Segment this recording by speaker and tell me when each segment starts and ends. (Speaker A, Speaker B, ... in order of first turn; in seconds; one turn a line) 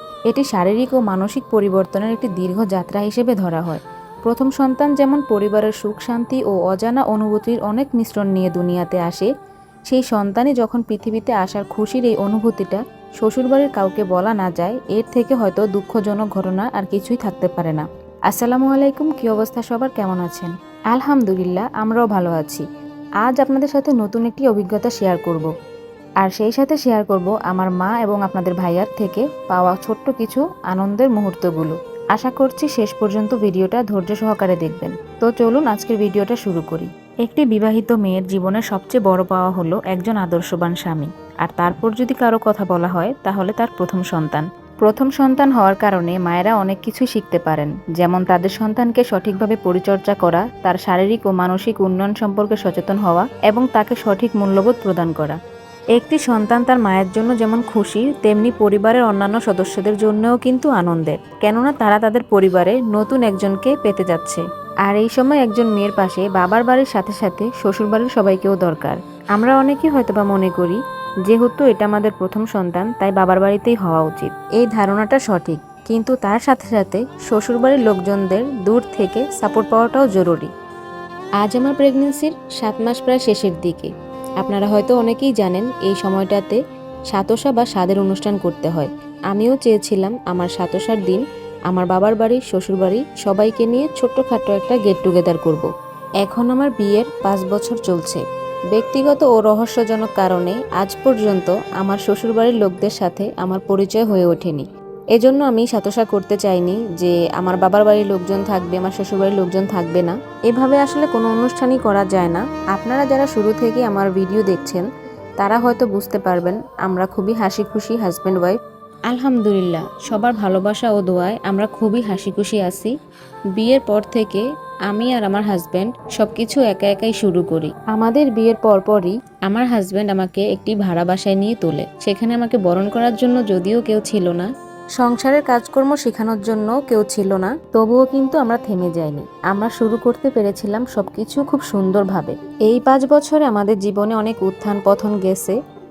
Speaker A: 0.3-9.3
Speaker A: 9.9-22.6
Speaker A: 23.2-25.5
Speaker A: 26.2-55.4
Speaker A: 55.9-80.5
Speaker A: 81.4-95.7
Speaker A: 96.2-114.8
Speaker A: 115.4-122.9
Speaker A: 123.5-145.6